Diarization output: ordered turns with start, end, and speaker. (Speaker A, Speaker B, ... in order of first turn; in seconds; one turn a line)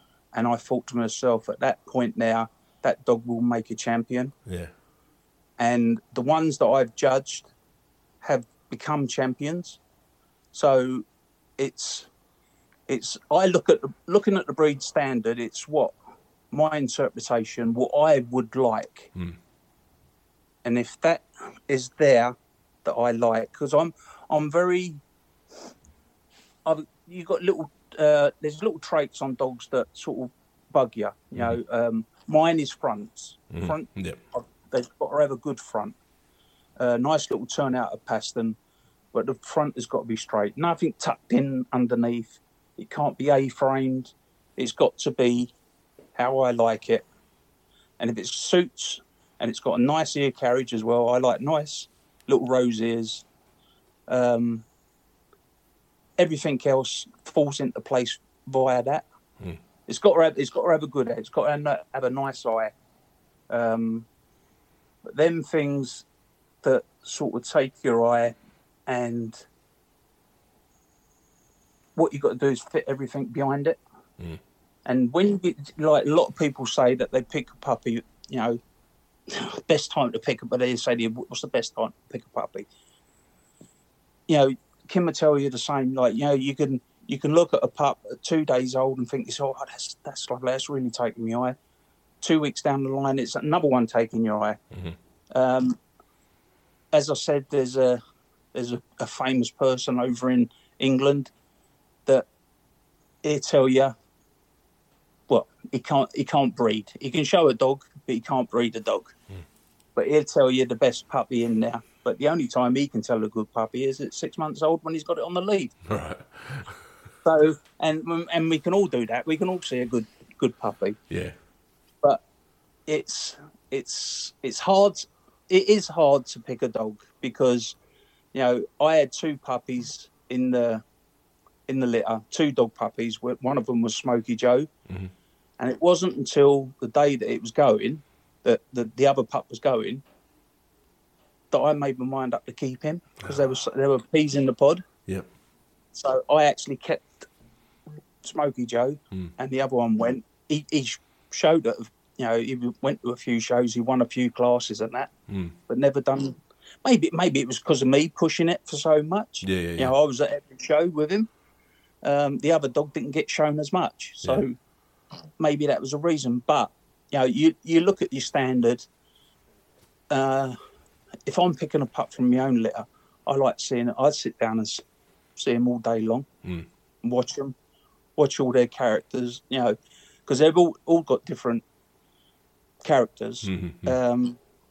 Speaker A: 0.3-4.3
Speaker B: 4.5-4.7
Speaker A: 5.6-7.5
Speaker A: 8.2-9.8
Speaker A: 10.5-11.1
Speaker A: 11.6-12.1
Speaker A: 12.9-15.9
Speaker A: 16.5-19.1
Speaker A: 20.6-25.0
Speaker A: 26.6-36.0
Speaker B: 33.5-34.2
Speaker A: 36.8-38.6
Speaker A: 39.1-45.5
Speaker A: 46.2-47.0
Speaker A: 48.0-53.2
Speaker A: 54.1-54.7
Speaker A: 56.2-59.1
Speaker A: 59.9-62.7
Speaker A: 63.5-64.1
Speaker A: 65.1-66.0
Speaker A: 66.6-68.3
Speaker A: 68.9-69.5
Speaker A: 72.0-73.8
Speaker A: 74.9-78.6
Speaker A: 79.3-82.7
Speaker A: 84.3-91.6
Speaker A: 92.2-94.6
Speaker B: 94.7-95.0
Speaker A: 95.3-95.8
Speaker A: 96.9-98.0
Speaker A: 98.5-101.3
Speaker A: 103.2-103.9
Speaker A: 105.3-109.1
Speaker A: 110.0-115.7
Speaker B: 115.9-116.8
Speaker A: 117.2-121.0
Speaker B: 121.1-121.4
Speaker A: 122.9-127.8
Speaker A: 128.3-130.8
Speaker A: 131.7-134.7
Speaker A: 135.6-140.0
Speaker A: 141.5-144.8
Speaker A: 145.9-147.3
Speaker A: 148.2-155.1
Speaker B: 155.3-155.6
Speaker A: 155.7-161.3
Speaker B: 159.4-159.9
Speaker A: 162.0-164.6
Speaker A: 165.4-168.8
Speaker A: 170.1-170.6
Speaker A: 171.3-174.8
Speaker A: 175.4-176.3
Speaker A: 177.0-177.5
Speaker A: 178.2-181.6
Speaker A: 182.8-184.4
Speaker B: 183.4-184.0